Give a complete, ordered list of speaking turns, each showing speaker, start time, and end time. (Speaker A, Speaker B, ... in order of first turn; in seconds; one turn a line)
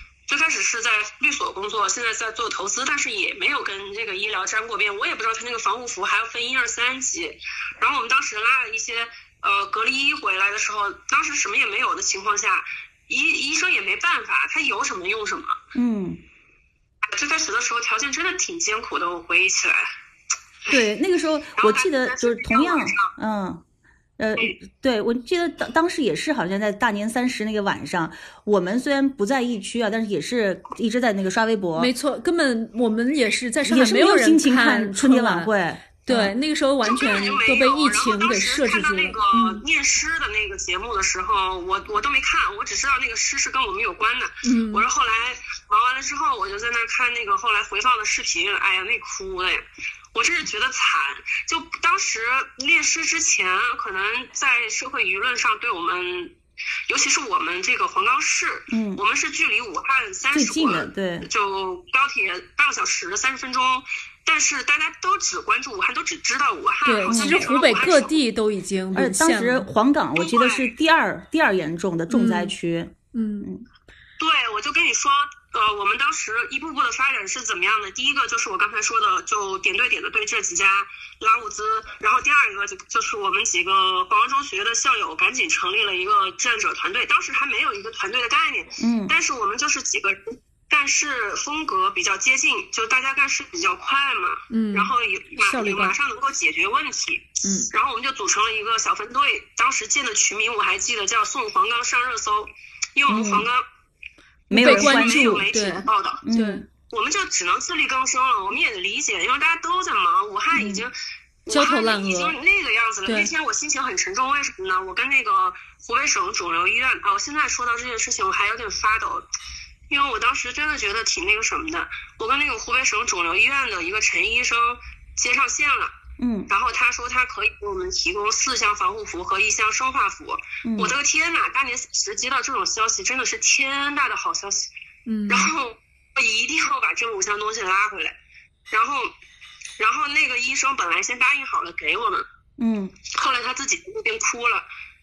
Speaker A: 0.3-15.6
Speaker B: 15.7-16.2
Speaker A: 17.0-19.9
Speaker B: 20.7-23.6
Speaker A: 21.6-23.1
Speaker B: 24.2-31.9
Speaker C: 31.8-35.5
Speaker B: 33.6-36.4
Speaker C: 36.0-39.2
Speaker A: 36.8-56.4
Speaker B: 39.3-39.6
Speaker C: 44.4-44.9
Speaker A: 56.9-68.2
Speaker B: 58.7-59.0
Speaker B: 60.3-61.3
Speaker C: 66.8-69.7
Speaker B: 67.1-67.4
Speaker B: 68.9-73.7
Speaker A: 70.2-70.7
Speaker C: 72.1-72.5
Speaker C: 73.1-73.5
Speaker A: 74.2-103.6
Speaker B: 88.8-89.1
Speaker C: 94.5-96.0
Speaker C: 97.4-97.7
Speaker B: 103.1-103.5
Speaker B: 104.5-105.5
Speaker C: 104.5-106.7
Speaker A: 104.5-106.2
Speaker B: 106.2-106.7
Speaker A: 106.9-110.9
Speaker B: 110.5-110.8
Speaker A: 111.5-119.3
Speaker C: 111.5-112.4
Speaker A: 119.9-125.9
Speaker B: 126.2-126.5
Speaker A: 126.5-134.7
Speaker B: 130.7-130.9
Speaker C: 135.1-135.5
Speaker A: 135.3-138.2
Speaker A: 138.7-139.1
Speaker A: 139.8-142.3
Speaker B: 142.6-143.0
Speaker A: 143.1-144.7